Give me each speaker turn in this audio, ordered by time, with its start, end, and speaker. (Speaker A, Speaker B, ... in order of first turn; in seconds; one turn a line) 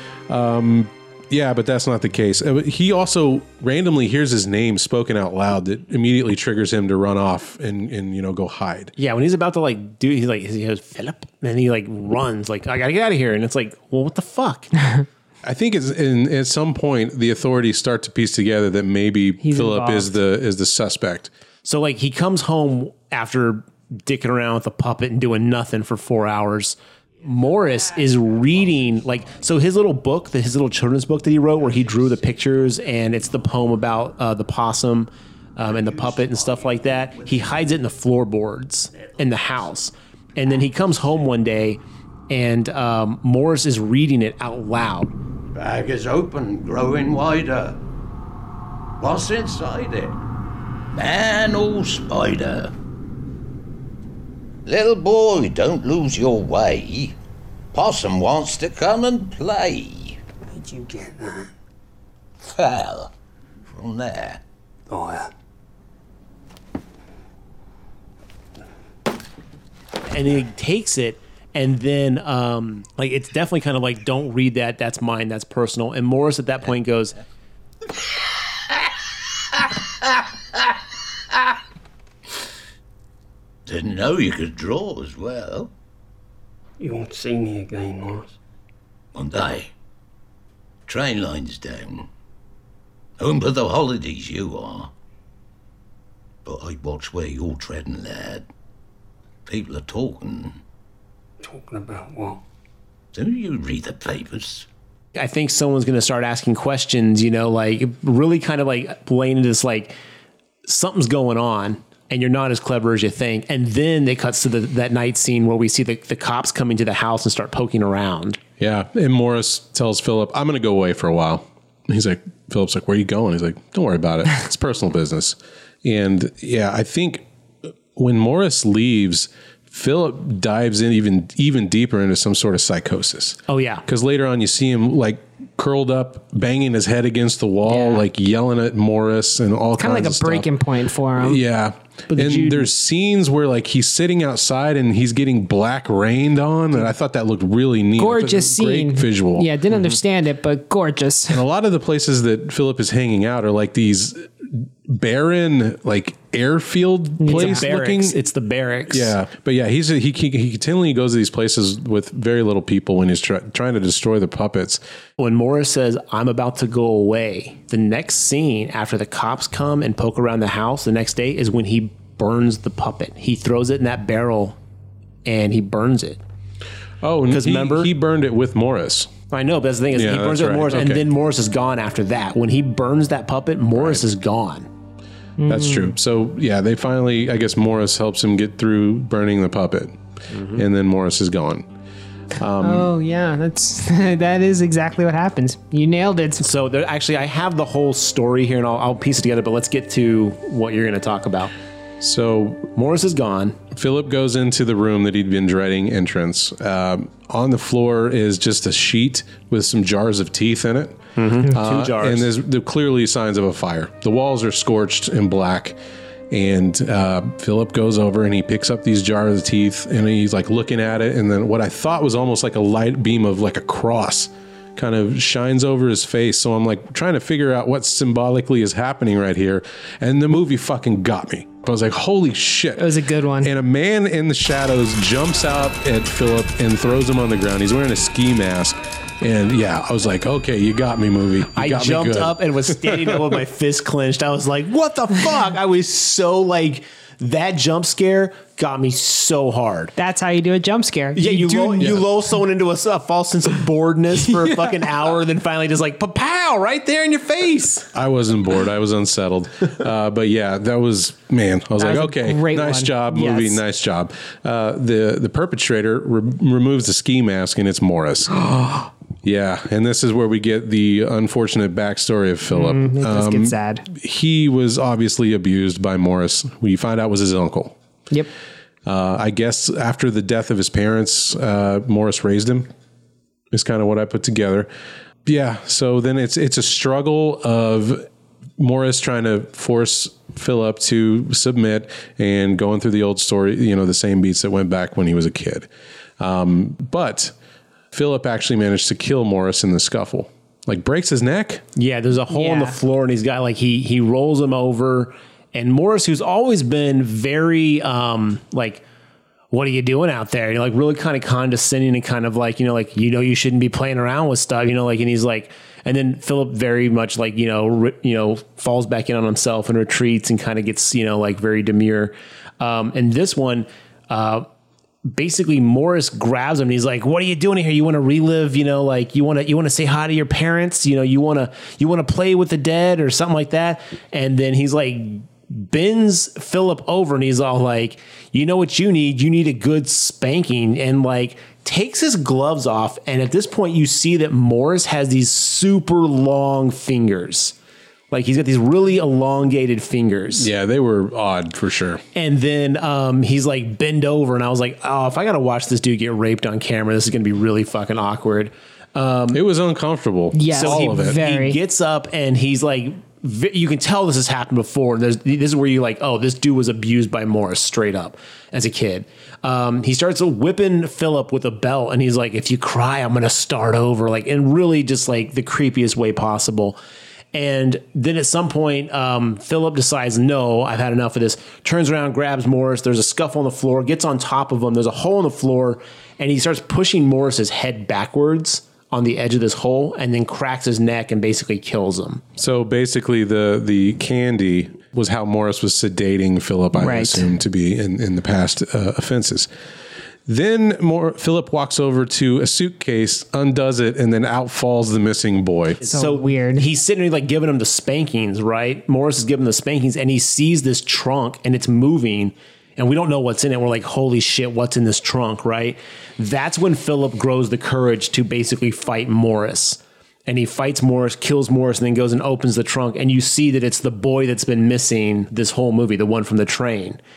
Speaker A: 0.3-8.9
Speaker B: 9.0-14.8
Speaker A: 15.4-21.3
Speaker C: 19.4-20.1
Speaker B: 21.6-45.1
Speaker D: 35.9-36.8
Speaker D: 45.5-47.8
Speaker D: 49.0-50.2
Speaker D: 50.9-52.7
Speaker D: 54.6-57.2
Speaker D: 57.7-60.2
Speaker E: 60.5-61.5
Speaker D: 62.5-63.1
Speaker D: 63.7-64.4
Speaker E: 64.9-65.3
Speaker B: 70.1-77.2
Speaker D: 83.7-85.7
Speaker E: 86.8-88.3
Speaker D: 89.1-89.7
Speaker D: 90.9-92.1
Speaker D: 93.2-94.9
Speaker D: 96.4-98.5
Speaker D: 99.5-100.6
Speaker E: 101.4-102.4
Speaker D: 103.1-104.7
Speaker B: 105.1-109.9
Speaker B: 110.7-118.4
Speaker A: 118.6-127.2
Speaker A: 127.9-140.5
Speaker B: 133.5-133.8
Speaker C: 137.7-138.0
Speaker C: 139.8-141.4
Speaker A: 141.2-149.5
Speaker C: 142.1-142.6
Speaker B: 142.3-142.6
Speaker C: 148.0-151.4
Speaker A: 151.3-158.2
Speaker C: 157.2-157.7
Speaker B: 157.3-159.1
Speaker A: 158.9-164.8
Speaker B: 165.2-174.6
Speaker B: 175.2-176.2
Speaker A: 177.0-179.1
Speaker B: 177.3-177.9
Speaker B: 179.3-184.7
Speaker A: 179.9-181.0
Speaker A: 183.8-184.1
Speaker C: 185.4-185.9
Speaker A: 185.5-190.0
Speaker B: 190.3-190.6
Speaker A: 190.5-191.7
Speaker A: 192.4-192.9
Speaker C: 192.6-196.4
Speaker B: 196.4-201.5
Speaker A: 202.0-202.7
Speaker B: 202.7-203.6
Speaker A: 203.7-215.8
Speaker B: 211.2-212.3
Speaker A: 216.3-243.4
Speaker C: 232.8-233.5
Speaker B: 241.5-249.9
Speaker C: 250.0-251.9
Speaker B: 251.1-257.9
Speaker A: 251.8-252.0
Speaker A: 257.9-268.4
Speaker C: 261.8-263.6
Speaker A: 269.2-277.8
Speaker C: 272.5-273.9
Speaker A: 278.8-282.7
Speaker A: 283.5-284.7
Speaker A: 285.2-295.7
Speaker A: 296.2-297.3
Speaker A: 297.9-301.6
Speaker B: 301.8-308.8
Speaker C: 302.3-302.8
Speaker B: 309.5-324.4
Speaker B: 325.0-347.5
Speaker B: 348.1-350.5
Speaker A: 350.4-352.0
Speaker B: 352.1-359.4
Speaker A: 359.3-361.2
Speaker C: 360.3-361.6
Speaker B: 360.5-376.8
Speaker B: 377.3-392.2
Speaker A: 392.4-399.5
Speaker C: 396.8-397.3
Speaker A: 400.3-405.8
Speaker B: 405.8-427.0
Speaker C: 405.9-406.6